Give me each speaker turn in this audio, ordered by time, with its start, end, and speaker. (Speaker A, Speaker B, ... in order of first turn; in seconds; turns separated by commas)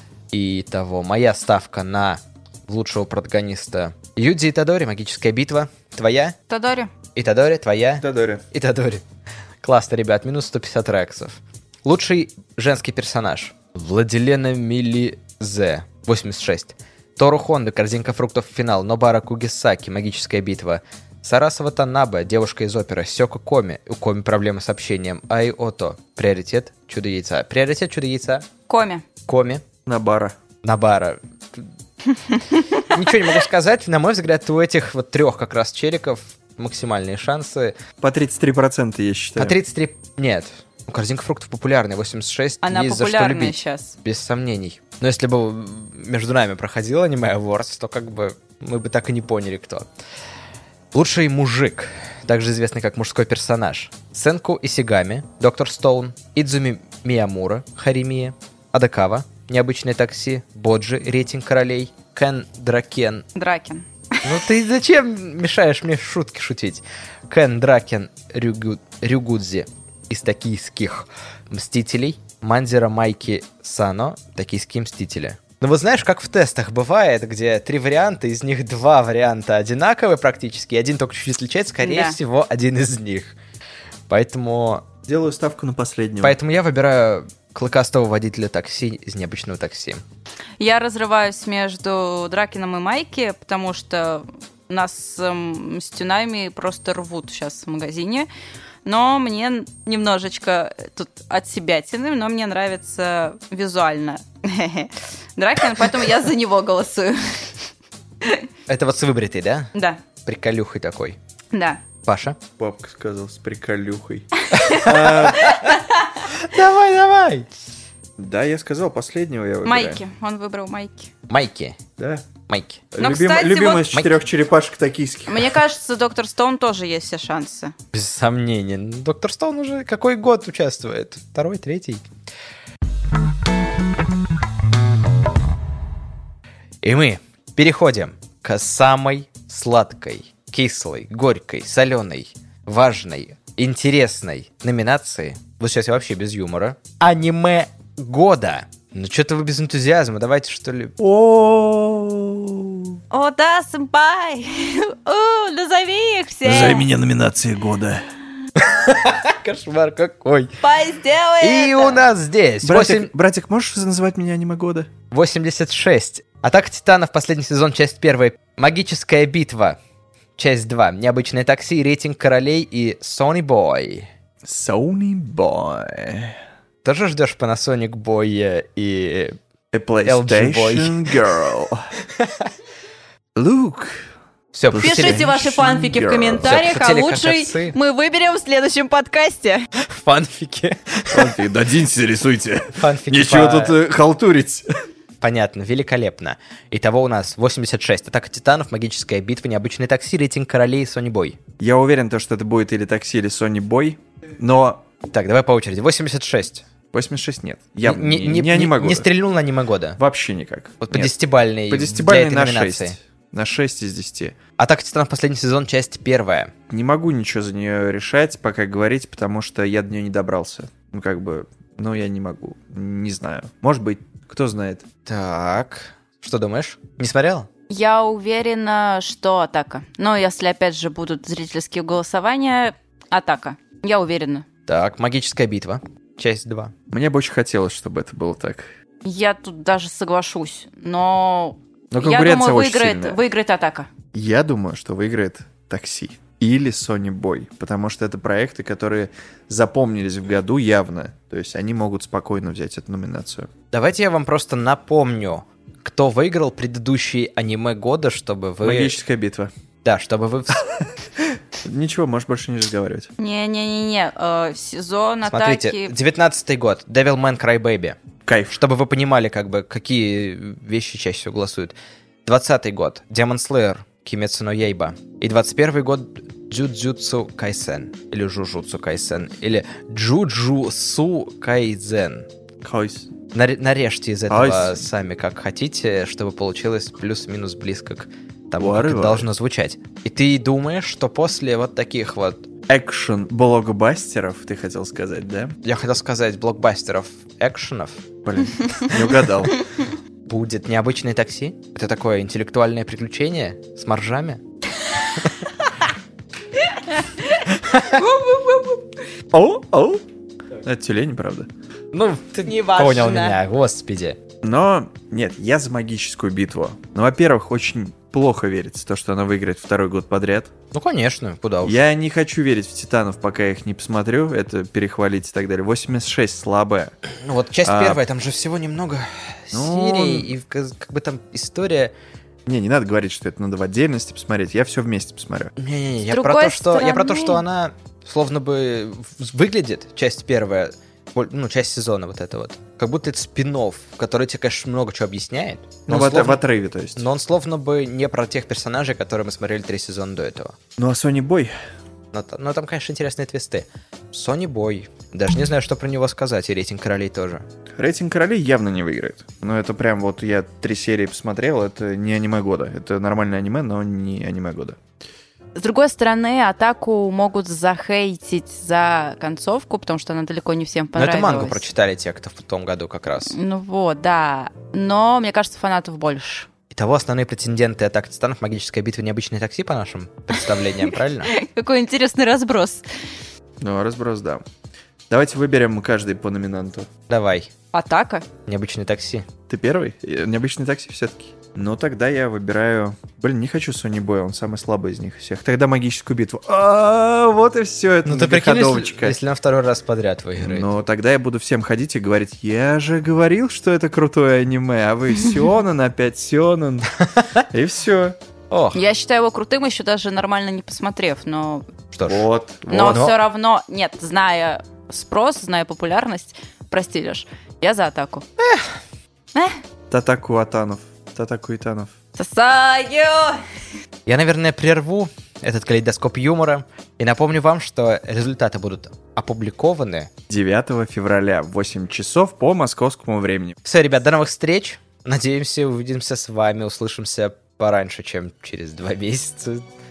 Speaker A: 0.3-6.3, Speaker B: 6.5-6.9, Speaker A: 7.2-9.0, Speaker C: 8.0-8.4, Speaker A: 9.6-28.5, Speaker B: 28.7-29.0, Speaker A: 29.3-29.6, Speaker C: 29.9-30.4, Speaker A: 30.6-31.7, Speaker B: 32.1-32.6, Speaker A: 32.9-37.8, Speaker C: 38.0-39.6, Speaker A: 39.4-49.9, Speaker B: 42.6-43.9, Speaker A: 50.9-63.2, Speaker B: 63.3-64.4, Speaker A: 64.2-83.3, Speaker B: 81.8-82.2, Speaker A: 84.1-84.9, Speaker C: 85.0-86.4, Speaker A: 86.2-90.0, Speaker B: 90.6-98.3, Speaker B: 98.8-107.7, Speaker A: 108.7-109.7, Speaker A: 110.2-111.2, Speaker B: 111.5-111.8, Speaker A: 112.0-112.4, Speaker C: 112.6-115.5, Speaker A: 114.5-115.7, Speaker B: 115.4-115.7, Speaker A: 116.3-117.5, Speaker C: 118.2-120.0, Speaker B: 119.6-121.1, Speaker A: 121.3-121.8, Speaker C: 122.0-122.2, Speaker A: 122.5-122.8, Speaker C: 122.9-125.6, Speaker B: 123.0-123.9, Speaker B: 125.3-127.7, Speaker A: 127.9-132.1, Speaker A: 136.8-150.9, Speaker C: 151.0-153.0, Speaker B: 153.1-156.9, Speaker C: 156.4-158.0, Speaker A: 158.6-160.5, Speaker B: 160.6-162.0, Speaker A: 161.4-163.1, Speaker C: 162.6-164.9, Speaker A: 165.1-169.8, Speaker A: 170.4-174.1, Speaker C: 174.4-176.4, Speaker A: 176.8-179.4, Speaker C: 179.7-181.8, Speaker A: 180.0-181.2, Speaker A: 182.2-182.4, Speaker C: 183.3-184.1, Speaker A: 184.5-185.3, Speaker C: 184.7-186.6, Speaker B: 184.8-189.6, Speaker A: 186.4-187.8, Speaker A: 189.8-191.3, Speaker C: 191.1-194.7, Speaker A: 192.8-193.8, Speaker A: 195.2-201.4, Speaker C: 201.6-204.8, Speaker A: 205.1-206.6, Speaker C: 206.9-209.1, Speaker A: 207.8-210.0, Speaker C: 210.0-211.1, Speaker A: 210.8-212.9, Speaker C: 211.7-214.3, Speaker A: 214.6-216.5, Speaker C: 216.7-224.8, Speaker A: 225.0-227.5, Speaker B: 227.7-234.4, Speaker A: 234.7-236.7, Speaker C: 236.9-238.7, Speaker B: 239.0-243.9, Speaker C: 241.9-243.2, Speaker C: 244.1-253.5, Speaker A: 253.7-259.0, Speaker C: 258.6-259.5, Speaker A: 259.8-260.7, Speaker C: 261.6-263.1, Speaker B: 263.2-265.9, Speaker A: 265.3-268.0, Speaker C: 268.2-268.6, Speaker A: 268.5-282.3, Speaker C: 282.6-283.1, Speaker A: 283.3-292.5, Speaker C: 284.3-284.8, Speaker C: 288.6-289.3, Speaker C: 292.7-295.6, Speaker A: 295.6-298.0, Speaker C: 298.2-299.6, Speaker A: 300.2-304.4, Speaker B: 306.6-308.8, Speaker A: 307.6-308.0, Speaker C: 309.3-310.0, Speaker C: 310.6-311.5, Speaker A: 311.9-314.2, Speaker B: 312.4-313.4, Speaker C: 314.4-320.5, Speaker A: 320.7-321.8, Speaker C: 321.6-326.9, Speaker A: 327.1-331.9, Speaker C: 327.6-328.0, Speaker C: 329.5-330.3, Speaker C: 332.4-335.5, Speaker A: 335.6-346.4, Speaker B: 336.1-337.4, Speaker C: 345.9-347.1, Speaker A: 346.9-350.6, Speaker C: 350.8-351.5, Speaker A: 352.1-357.4, Speaker C: 357.8-364.8, Speaker B: 365.6-371.6, Speaker A: 371.0-373.3, Speaker B: 373.3-376.5, Speaker A: 376.7-381.3, Speaker B: 380.8-382.9, Speaker C: 383.6-384.4, Speaker C: 385.1-386.9, Speaker A: 387.1-387.5, Speaker B: 387.7-388.2, Speaker A: 388.5-389.2, Speaker C: 389.5-399.2, Speaker A: 398.0-400.7, Speaker C: 400.4-406.9, Speaker C: 407.5-408.2, Speaker A: 408.5-408.8, Speaker B: 408.7-411.7, Speaker A: 411.9-412.2, Speaker C: 412.1-413.1, Speaker B: 412.7-418.2, Speaker A: 412.9-413.1, Speaker A: 418.4-418.7, Speaker C: 419.9-421.9, Speaker B: 422.2-423.4, Speaker A: 424.1-430.1, Speaker C: 430.3-433.6, Speaker A: 433.6-439.6